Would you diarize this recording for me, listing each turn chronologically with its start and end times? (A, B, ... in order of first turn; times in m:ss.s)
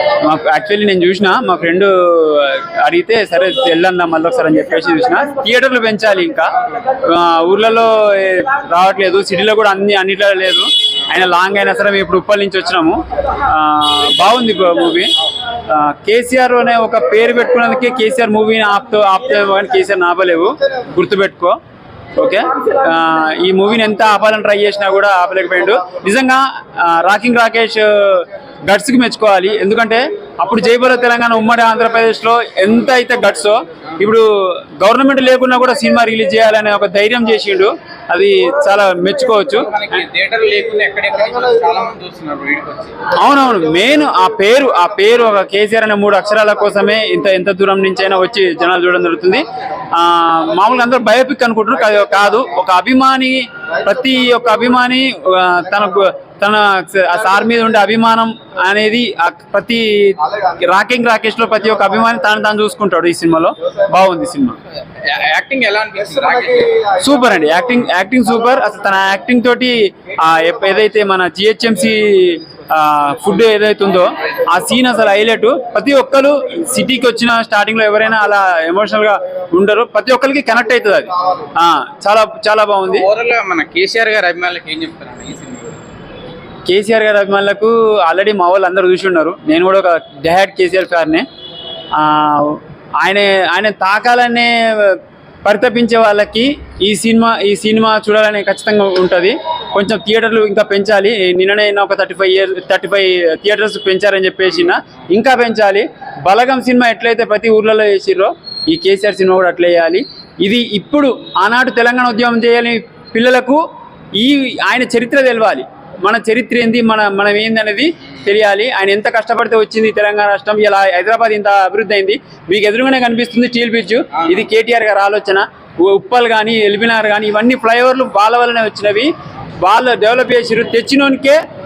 0:00.2-0:15.1 A
0:15.6-0:21.6 A
0:22.2-0:39.8 A
0:39.5-0:43.1 B
0:43.2-1:04.6 A
1:05.0-1:06.9 B
1:07.0-1:23.1 A
1:22.9-1:25.8 B
1:26.7-1:31.3 A
1:31.9-1:53.6 A
1:54.2-2:11.4 A